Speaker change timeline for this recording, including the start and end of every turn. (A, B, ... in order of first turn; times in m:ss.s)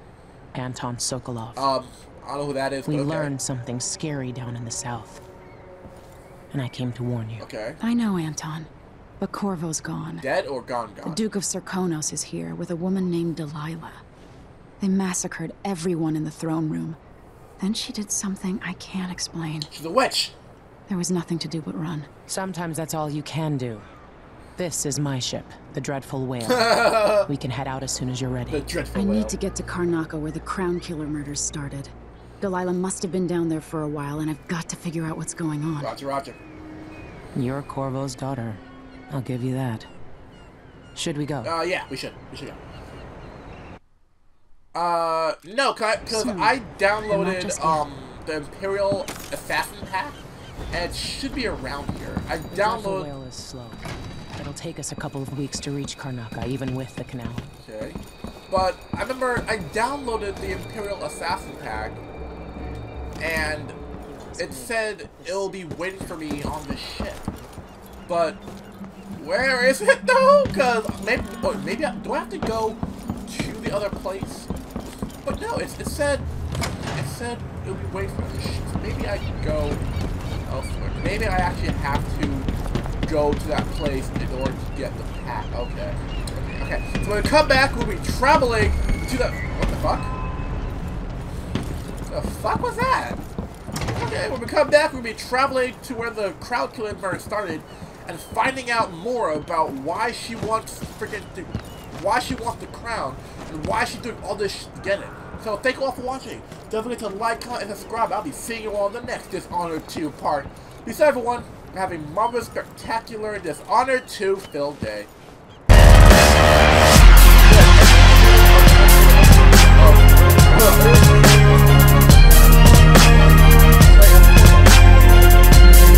0:00.5-0:01.7 A
0:01.6-0:03.3 B
0:02.8-0:05.2 A
0:06.5-0:07.5 A
0:07.4-0:07.8 B
0:07.8-0:10.3 C
0:10.2-0:11.2 B
0:11.0-0:14.0 C
0:14.8-0:17.0 C
0:17.6-0:19.7 C
0:19.7-0:20.4 B
0:20.9-0:22.1 C
0:22.3-0:23.9 A
0:24.6-0:28.7 A
0:26.4-0:27.3 B
0:28.5-0:29.4 B
0:29.0-0:35.9 C
0:35.8-0:36.4 B
0:37.4-0:39.9 A
0:41.0-0:41.5 A
0:41.4-0:42.6 B
0:44.7-0:50.2 B
0:46.1-0:46.6 C
0:47.1-0:47.8 C
0:50.7-0:53.1 B
0:52.5-0:57.4 A
0:57.6-0:58.0 B
0:58.5-1:02.0 B
1:03.2-1:03.8 B
1:04.0-1:05.8 A
1:04.4-1:07.2 B
1:08.1-1:08.4 B
1:09.2-1:14.5 B
1:15.2-1:16.3 B
1:17.0-1:19.8 B
1:20.5-1:22.5 B
1:23.0-1:30.1 B
1:32.1-1:33.2 B
1:34.0-1:55.1 B
1:57.3-2:03.1 B
2:03.8-2:05.4 B